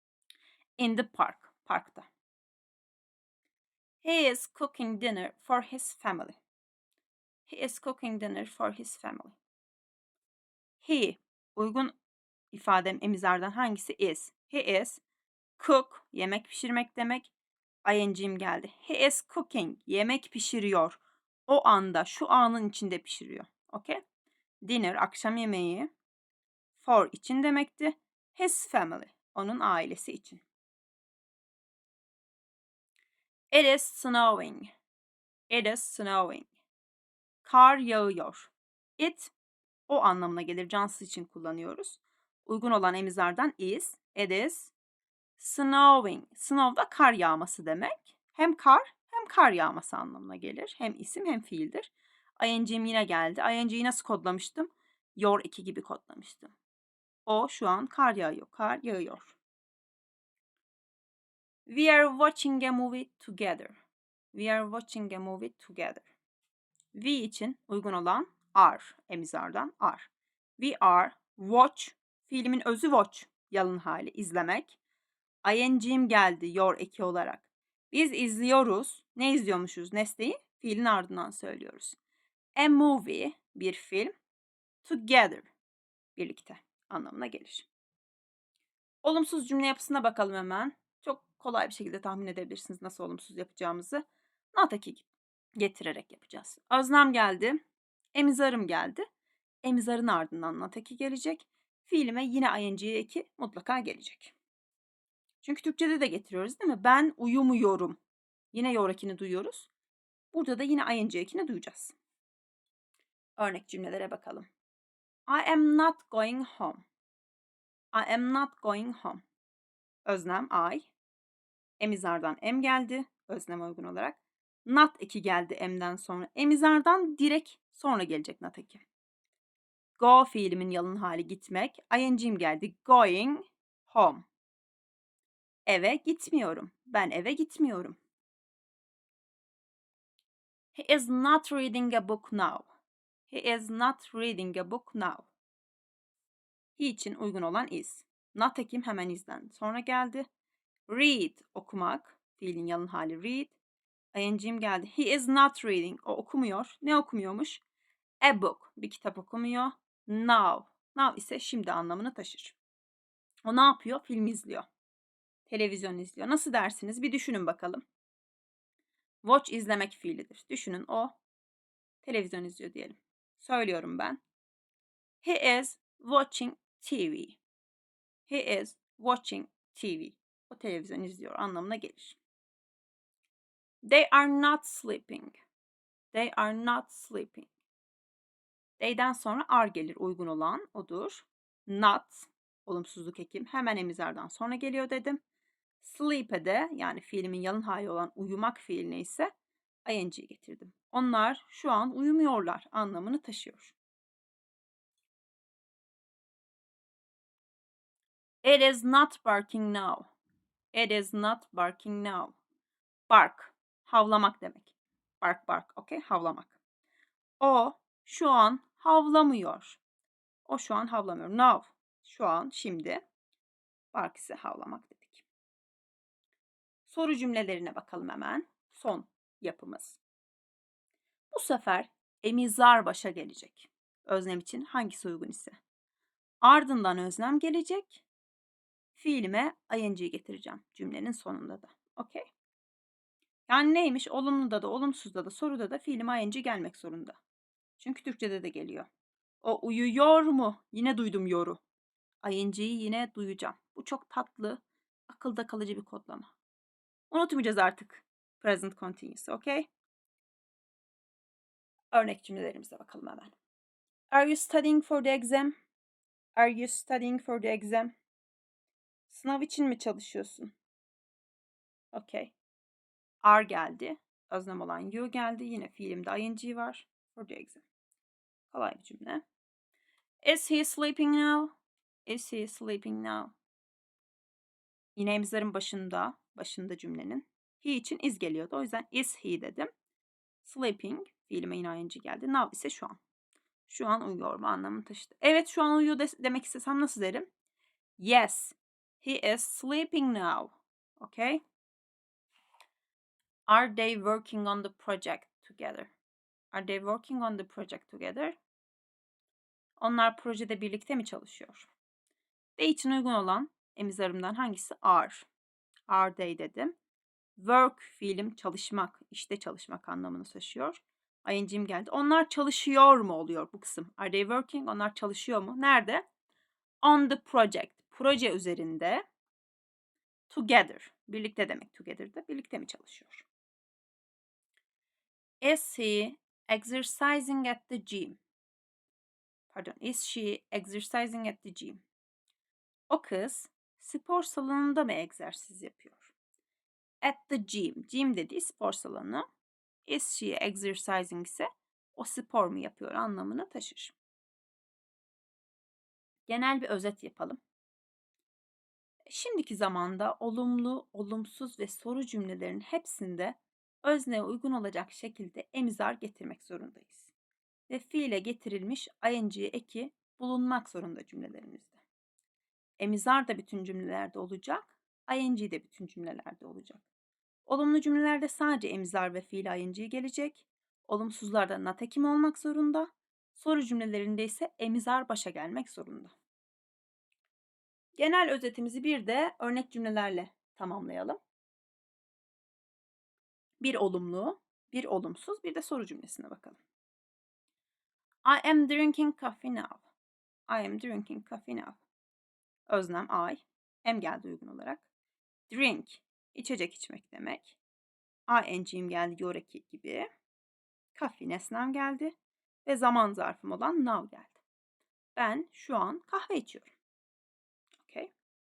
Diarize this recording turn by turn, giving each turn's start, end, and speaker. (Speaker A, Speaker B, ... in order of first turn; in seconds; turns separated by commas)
Speaker A: 0.8-2.0, Speaker A: 4.0-6.4, Speaker A: 7.5-9.4, Speaker A: 10.8-11.9, Speaker A: 12.5-15.0, Speaker A: 15.6-17.3, Speaker A: 17.8-24.0, Speaker A: 24.6-25.9, Speaker A: 26.8-30.4, Speaker A: 33.5-34.7, Speaker A: 35.5-36.5, Speaker A: 37.4-39.3, Speaker A: 39.9-44.7, Speaker A: 45.4-56.5, Speaker A: 57.2-59.4, Speaker A: 61.7-63.8, Speaker A: 64.3-66.1, Speaker A: 66.9-74.8, Speaker A: 75.4-82.0, Speaker A: 82.5-84.1, Speaker A: 84.8-85.5, Speaker A: 86.2-87.7, Speaker A: 89.0-95.0, Speaker A: 95.6-97.6, Speaker A: 98.1-99.0, Speaker A: 99.6-104.3, Speaker A: 105.4-108.0, Speaker A: 108.5-109.7, Speaker A: 110.3-111.9, Speaker A: 113.4-114.5, Speaker A: 115.3-116.8, Speaker A: 117.9-119.2, Speaker A: 120.0-120.9, Speaker A: 121.8-128.8, Speaker A: 130.0-134.2, Speaker A: 135.7-138.0, Speaker A: 140.7-142.7, Speaker A: 143.3-145.3, Speaker A: 146.8-150.2, Speaker A: 150.9-153.6, Speaker A: 154.1-157.6, Speaker A: 158.2-162.6, Speaker A: 163.4-164.7, Speaker A: 165.5-167.8, Speaker A: 169.2-171.2, Speaker A: 172.0-174.2, Speaker A: 175.2-177.4, Speaker A: 178.3-182.2, Speaker A: 183.8-185.4, Speaker A: 186.1-187.5, Speaker A: 188.8-195.2, Speaker A: 195.8-199.3, Speaker A: 199.8-203.7, Speaker A: 208.4-210.1, Speaker A: 210.7-212.3, Speaker A: 213.1-216.6, Speaker A: 217.4-219.8, Speaker A: 220.4-223.0, Speaker A: 223.9-225.2, Speaker A: 226.8-230.0, Speaker A: 231.3-235.6, Speaker A: 236.4-238.0, Speaker A: 238.9-242.3, Speaker A: 243.5-247.2, Speaker A: 247.8-248.9, Speaker A: 249.4-251.6, Speaker A: 252.2-256.3, Speaker A: 257.1-259.7, Speaker A: 261.9-263.3, Speaker A: 264.1-265.5, Speaker A: 266.4-267.9, Speaker A: 269.1-270.5, Speaker A: 271.9-272.3, Speaker A: 273.2-277.6, Speaker A: 278.5-279.2, Speaker A: 280.2-281.5, Speaker A: 282.1-283.3, Speaker A: 284.9-289.7, Speaker A: 290.4-293.0, Speaker A: 293.7-297.3, Speaker A: 298.0-301.4, Speaker A: 303.5-305.9, Speaker A: 306.5-308.4, Speaker A: 309.8-311.7, Speaker A: 312.6-315.3, Speaker A: 315.9-316.7, Speaker A: 317.4-326.0, Speaker A: 326.8-329.0, Speaker A: 330.3-333.2, Speaker A: 335.4-338.2, Speaker A: 339.5-341.8, Speaker A: 342.9-346.1, Speaker A: 347.0-349.2, Speaker A: 349.9-353.9, Speaker A: 356.3-357.4, Speaker A: 359.1-367.1, Speaker A: 367.7-371.8, Speaker A: 372.8-376.8, Speaker A: 377.5-386.1, Speaker A: 387.9-391.2, Speaker A: 393.6-396.6, Speaker A: 398.2-399.8, Speaker A: 400.5-401.8, Speaker A: 402.7-404.8, Speaker A: 405.5-407.6, Speaker A: 408.3-410.1, Speaker A: 410.9-412.1, Speaker A: 412.6-414.4, Speaker A: 415.1-416.7, Speaker A: 417.8-418.1